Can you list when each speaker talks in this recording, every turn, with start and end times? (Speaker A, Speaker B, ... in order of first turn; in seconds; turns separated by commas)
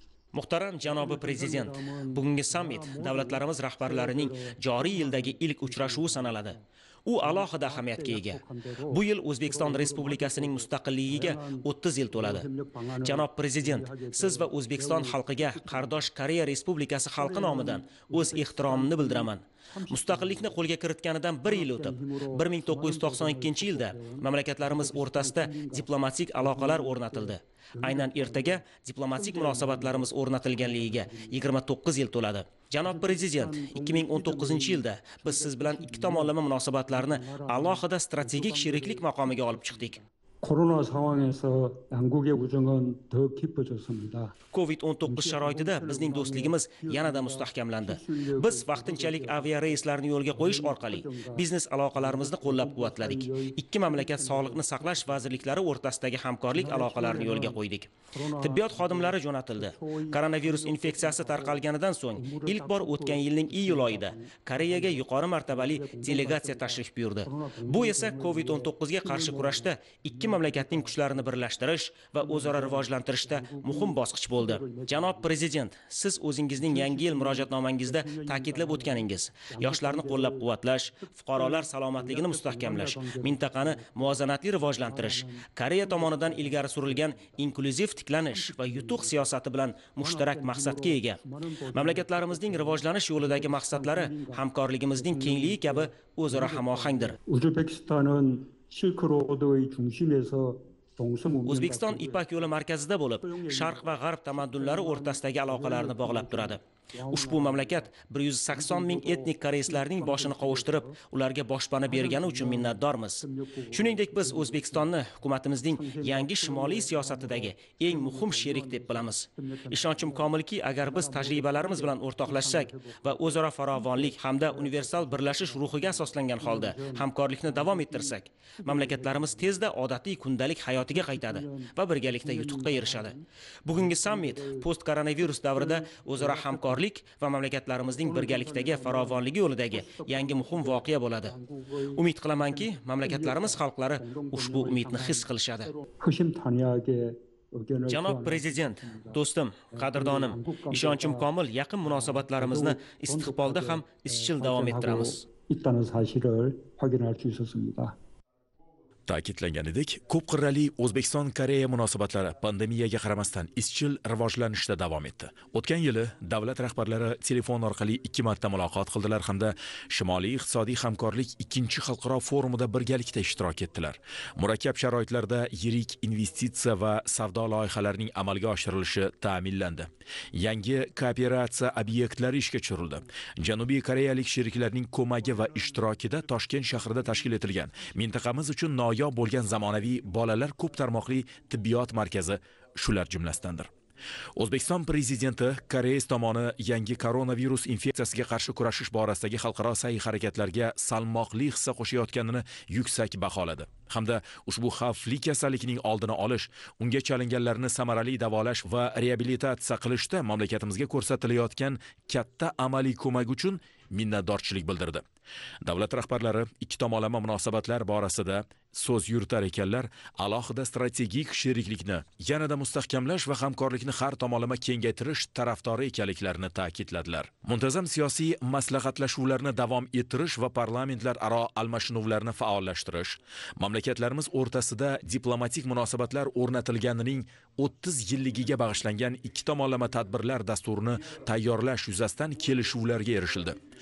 Speaker A: 0.3-12.5, Speaker B: 0.8-6.6, Speaker B: 7.2-16.1, Speaker A: 13.0-40.0, Speaker B: 17.1-20.6, Speaker B: 21.4-28.6, Speaker B: 29.1-31.5, Speaker B: 32.8-44.4, Speaker A: 44.5-97.2, Speaker B: 45.0-55.3, Speaker B: 56.5-57.6, Speaker B: 58.1-71.3, Speaker B: 72.1-75.4, Speaker B: 76.5-87.4, Speaker B: 88.3-89.2, Speaker B: 90.0-102.5, Speaker A: 101.4-141.3, Speaker B: 103.2-107.9, Speaker B: 108.5-111.0, Speaker B: 111.8-115.0, Speaker B: 115.6-129.6, Speaker B: 130.8-136.8, Speaker B: 138.0-149.2, Speaker A: 141.9-145.7, Speaker A: 147.9-155.2, Speaker B: 149.7-151.3, Speaker B: 151.8-157.9, Speaker C: 159.1-193.7, Speaker C: 194.4-215.0, Speaker C: 215.6-243.6